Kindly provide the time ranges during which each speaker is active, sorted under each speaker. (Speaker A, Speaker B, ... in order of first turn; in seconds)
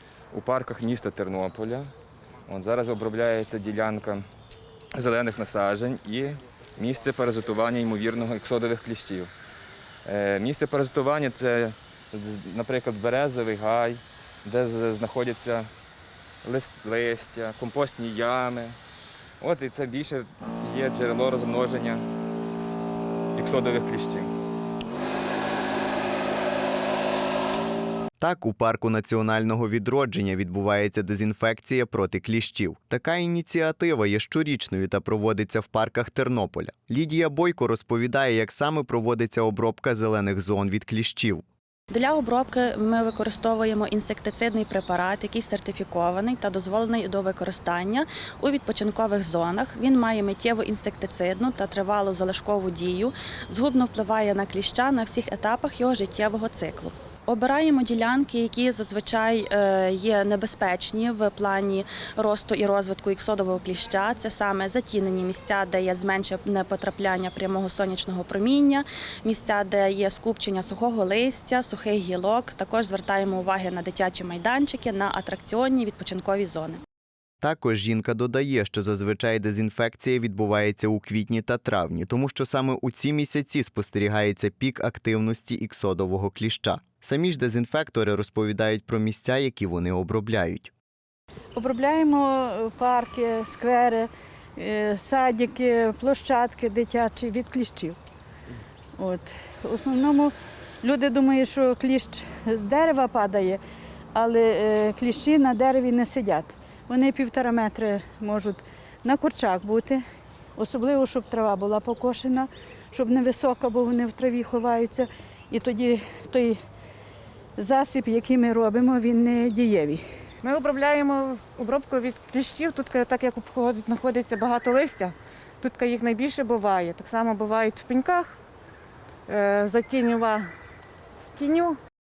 Speaker A: 0.3-1.9, 2.5-4.2, 5.0-9.3, 10.1-15.7, 16.4-18.8, 19.4-22.0, 23.4-24.3
Speaker B: 28.2-41.4, 77.4-90.7
Speaker C: 41.9-76.8
Speaker D: 91.5-98.0, 99.0-103.6, 104.1-110.0, 110.6-116.6, 117.6-120.0
Speaker E: 120.4-128.3, 129.3-130.5, 131.3-131.8